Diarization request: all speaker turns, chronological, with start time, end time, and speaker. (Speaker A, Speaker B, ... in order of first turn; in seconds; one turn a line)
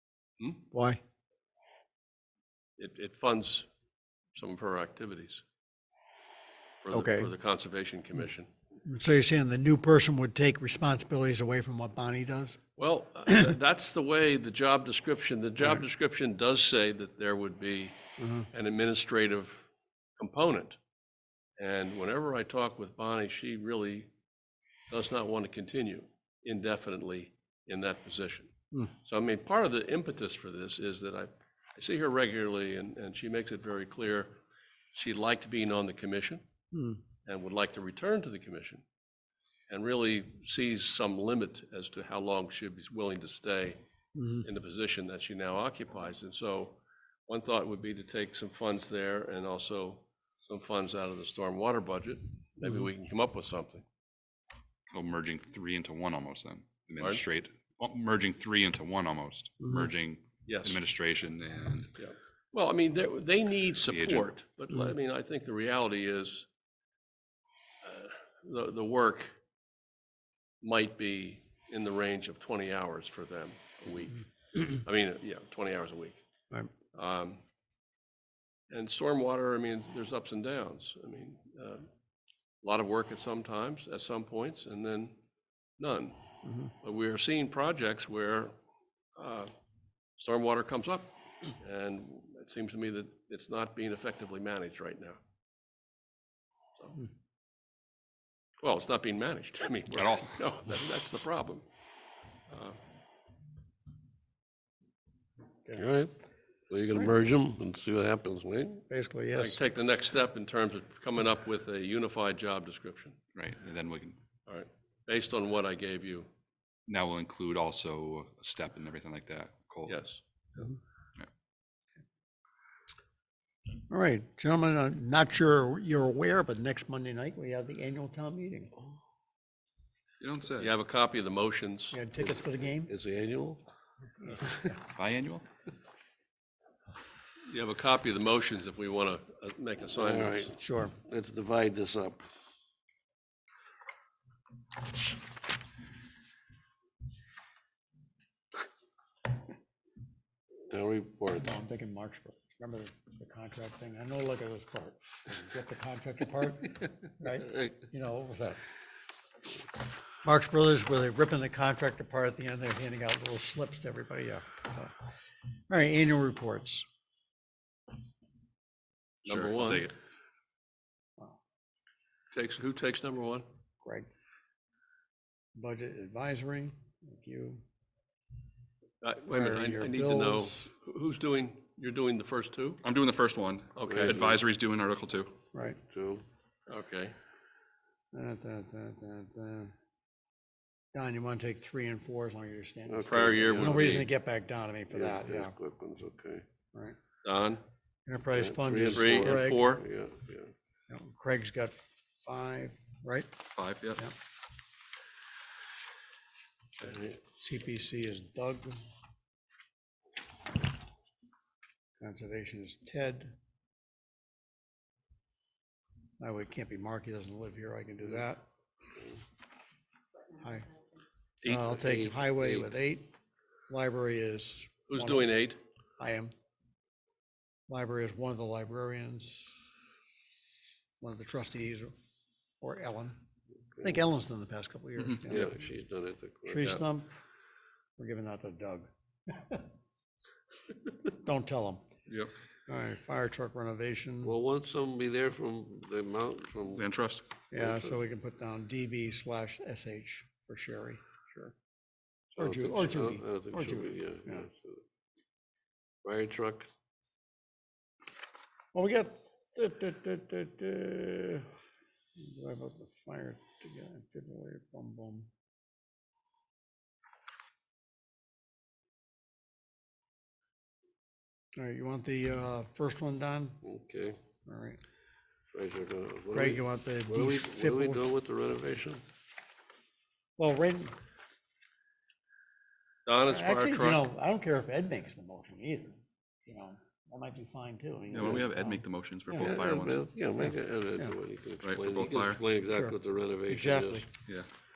Speaker A: 0.7-1.0
Speaker B: 2.8-3.7
Speaker B: 4.4-5.4
Speaker B: 6.8-8.5
Speaker A: 6.9-7.3
Speaker A: 8.8-12.6
Speaker B: 12.8-18.0
Speaker A: 18.2-18.5
Speaker B: 18.5-19.7
Speaker B: 20.2-20.8
Speaker B: 21.6-24.1
Speaker B: 24.9-28.5
Speaker B: 29.1-34.3
Speaker B: 34.9-36.4
Speaker A: 36.7-37.0
Speaker B: 37.3-38.8
Speaker B: 39.7-43.8
Speaker A: 44.1-44.5
Speaker B: 44.4-53.9
Speaker C: 54.9-61.9
Speaker B: 60.5-60.8
Speaker B: 62.0-66.5
Speaker C: 63.9-64.3
Speaker B: 67.8-69.3
Speaker B: 70.6-76.2
Speaker B: 76.9-77.4
Speaker B: 78.7-81.9
Speaker B: 82.6-85.2
Speaker B: 85.8-86.2
Speaker A: 86.5-86.7
Speaker B: 86.8-88.5
Speaker B: 89.2-89.5
Speaker B: 90.2-95.2
Speaker B: 98.6-101.7
Speaker C: 99.9-100.3
Speaker B: 102.5-102.8
Speaker D: 105.7-106.2
Speaker D: 106.7-108.8
Speaker A: 108.9-109.6
Speaker B: 109.3-113.2
Speaker C: 113.3-114.2
Speaker B: 114.5-116.3
Speaker C: 116.9-120.0
Speaker B: 119.9-120.7
Speaker A: 123.9-128.7
Speaker C: 130.2-130.7
Speaker B: 130.6-132.0
Speaker A: 131.9-132.9
Speaker D: 132.9-133.6
Speaker A: 134.2-134.8
Speaker C: 134.9-135.5
Speaker B: 137.5-140.5
Speaker D: 140.0-142.2
Speaker A: 140.5-141.0
Speaker D: 150.7-151.5
Speaker A: 151.4-158.6
Speaker A: 160.2-164.9
Speaker A: 165.7-166.9
Speaker B: 169.3-169.9
Speaker C: 169.3-169.9
Speaker B: 172.3-173.5
Speaker A: 173.8-174.1
Speaker A: 175.6-177.6
Speaker B: 179.0-182.8
Speaker A: 179.3-180.7
Speaker C: 182.8-185.3
Speaker B: 183.8-184.2
Speaker D: 183.9-184.4
Speaker A: 185.5-185.8
Speaker D: 185.8-186.2
Speaker B: 186.7-187.2
Speaker A: 188.1-189.7
Speaker A: 190.9-195.5
Speaker D: 192.9-194.1
Speaker B: 193.1-194.1
Speaker D: 194.9-196.4
Speaker B: 197.2-197.6
Speaker A: 198.1-199.7
Speaker D: 198.4-200.5
Speaker B: 198.9-199.8
Speaker A: 200.9-203.3
Speaker C: 203.6-204.0
Speaker A: 207.0-208.8
Speaker A: 212.0-213.4
Speaker A: 216.2-218.4
Speaker A: 220.4-220.7
Speaker B: 221.4-221.7
Speaker A: 221.4-223.1
Speaker D: 221.6-222.7
Speaker A: 223.7-225.3
Speaker B: 224.9-225.6
Speaker A: 226.0-226.3
Speaker A: 227.7-229.6
Speaker A: 231.0-231.9
Speaker A: 232.6-233.2
Speaker A: 233.8-235.5
Speaker D: 235.3-236.8
Speaker A: 236.5-237.1
Speaker A: 238.0-239.6
Speaker A: 241.1-241.9
Speaker A: 242.7-244.3
Speaker D: 244.2-246.8
Speaker C: 246.8-247.2
Speaker A: 247.5-251.5
Speaker D: 247.6-248.0
Speaker D: 252.3-254.8
Speaker A: 252.4-254.5
Speaker D: 256.0-256.7
Speaker A: 258.7-261.5
Speaker A: 262.2-265.3
Speaker A: 271.6-273.6
Speaker D: 273.6-274.2
Speaker A: 274.5-274.8
Speaker D: 275.5-279.0
Speaker A: 276.3-278.0
Speaker A: 280.4-280.9
Speaker B: 283.1-284.1
Speaker A: 283.3-289.5
Speaker C: 288.1-290.1
Speaker D: 289.4-294.1
Speaker A: 290.4-291.1
Speaker C: 291.6-292.4
Speaker A: 292.7-294.1